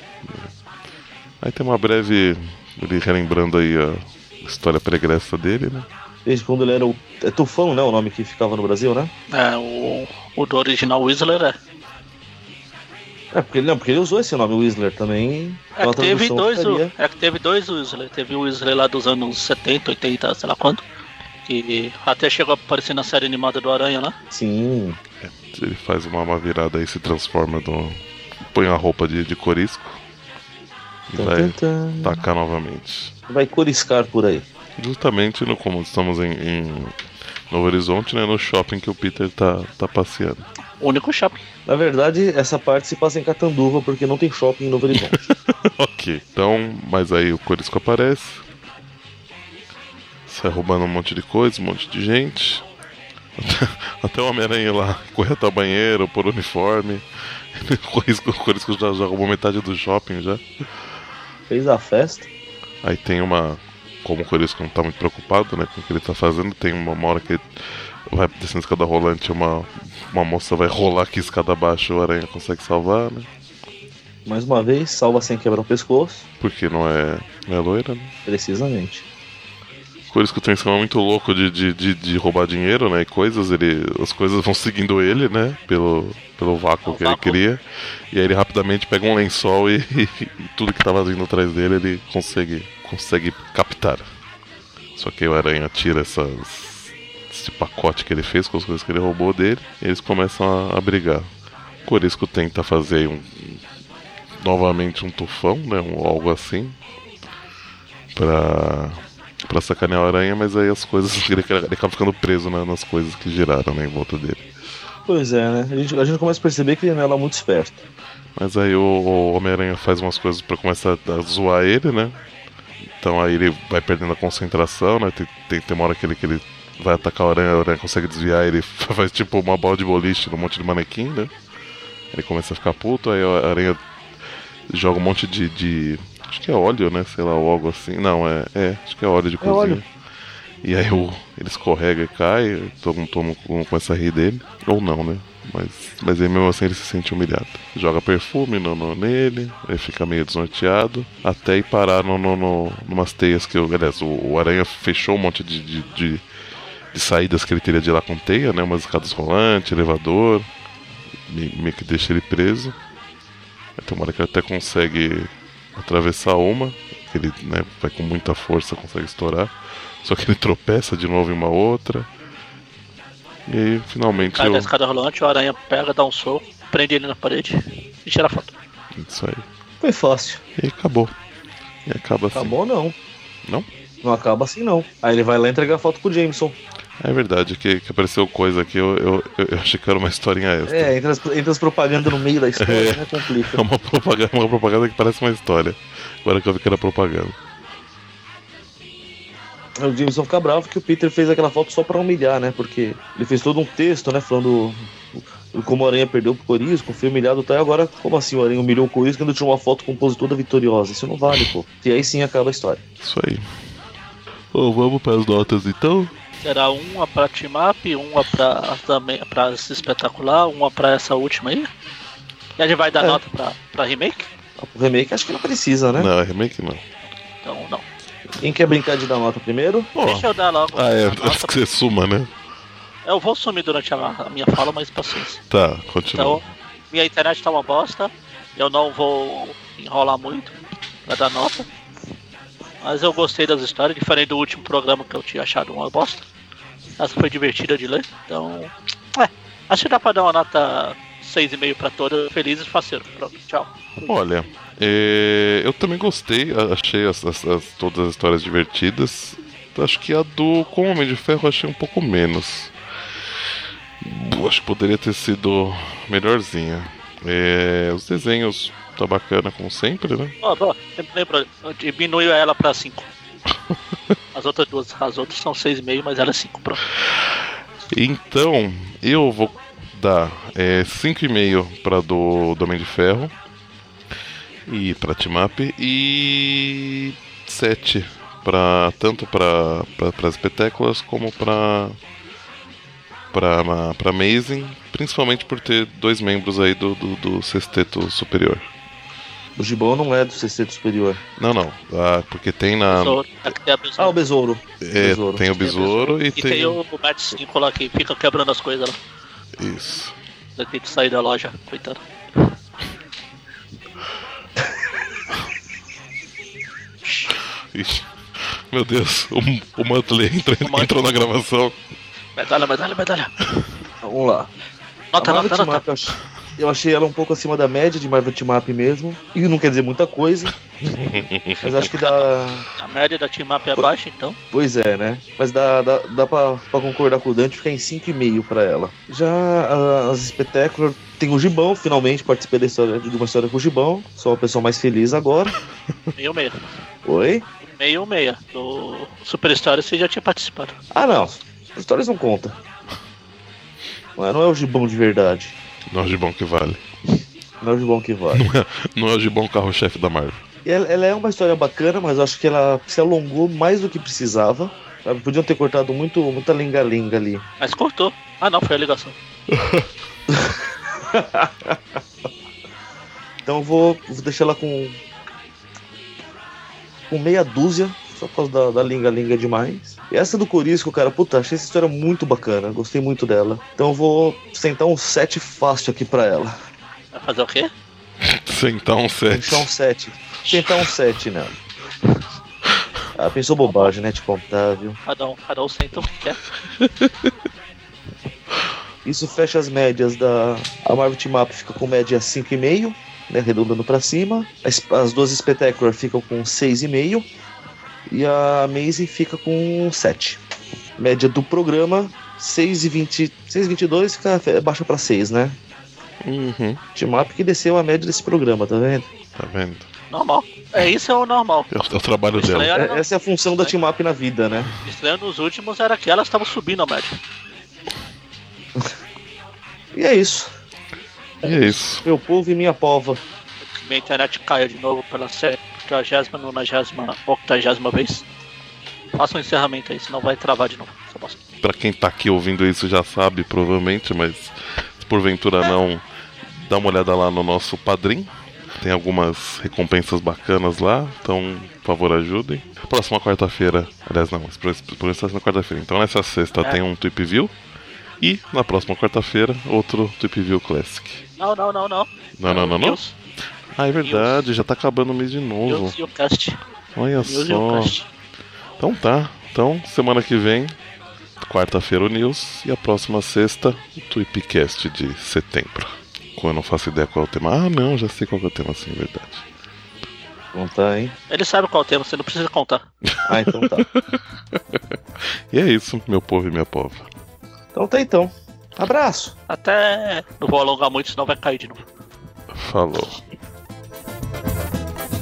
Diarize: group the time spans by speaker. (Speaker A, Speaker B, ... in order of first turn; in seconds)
Speaker A: 0.2-0.5, 1.4-5.9, 25.2-30.0, 31.1-33.1, 34.8-37.0, 37.5-40.5, 44.9-48.4, 50.3-52.6, 53.4-57.0, 57.5-60.4, 62.8-67.5, 68.1-73.3, 76.4-78.1, 80.1-87.6, 88.1-94.1, 95.0-101.3, 101.9-103.6, 104.4-106.8, 108.1-114.4, 118.4-122.2, 123.0-131.3, 132.1-133.8, 134.7-139.8, 140.6-156.2, 156.9-160.5, 161.3-162.8, 163.8-172.1, 173.5-174.7, 178.9-179.4, 180.6-181.1, 181.9-182.6, 187.0-190.9, 192.6-197.4, 213.0-213.5, 214.5-216.1, 225.9-226.8, 229.9-232.3, 235.5-236.5, 254.0-262.7, 264.0-270.4, 277.9-283.3, 284.7-292.0, 293.3-298.7, 301.4-303.2, 304.8-306.8, 309.6-310.1, 317.7-321.8, 330.9-331.9, 355.9-356.9, 358.3-360.4, 388.2-389.7, 396.8-397.3, 416.2-416.8, 419.4-419.9, 421.7-422.7, 431.4-432.1, 441.6-448.3, 448.8-457.5, 458.2-461.2, 462.4-463.0, 463.7-466.0, 466.9-468.0, 468.8-470.8, 471.4-479.4, 483.1-484.8, 485.5-487.1, 492.5-493.2
Speaker B: 6.2-9.1, 13.3-16.9, 24.3-25.0, 31.2-32.3, 33.3-34.5, 41.7-45.2, 61.5-62.3, 74.3-76.2, 78.3-79.0, 115.1-117.8, 139.4-139.8, 179.8-180.4, 182.3-182.9, 184.0-186.6, 190.7-193.6, 199.8-212.8, 222.9-223.2, 224.6-226.1, 228.4-229.9, 299.6-301.2, 304.0-305.5, 324.0-324.5, 325.2-330.5, 331.6-332.7, 334.5-345.6, 347.1-347.5, 350.9-352.6, 354.2-355.6, 357.6-358.4, 360.6-367.4, 370.3-371.8, 373.5-375.0, 377.1-386.5, 389.3-391.6, 393.1-395.0, 399.1-407.2, 408.1-410.4, 411.0-415.6, 416.9-419.1, 422.7-424.7, 429.9-430.5, 431.5-433.2, 480.5-481.1, 483.2-483.9, 487.7-489.3
Speaker C: 9.3-11.6, 15.8-20.8, 21.5-24.1, 40.8-41.4, 86.8-87.4, 174.2-178.5, 216.4-221.7, 222.6-224.3, 227.4-227.8, 230.0-231.5, 233.1-235.4, 236.1-240.6, 241.1-241.7, 242.8-246.2, 247.0-254.1, 270.4-273.1, 274.3-276.8, 302.9-304.2, 305.6-309.0, 310.6-312.5, 317.0-317.3, 320.6-321.0, 322.4-323.3, 325.1-325.8, 331.8-332.2, 332.8-334.4, 346.1-346.6, 347.7-350.8, 367.6-369.2, 387.1-387.7, 393.7-393.9, 395.1-396.4, 420.1-421.7, 422.3-423.1, 424.8-427.2, 433.7-438.2, 439.1-441.4, 461.4-463.1, 464.0-464.4, 465.7-466.6, 467.2-468.1, 481.3-482.9, 489.5-491.8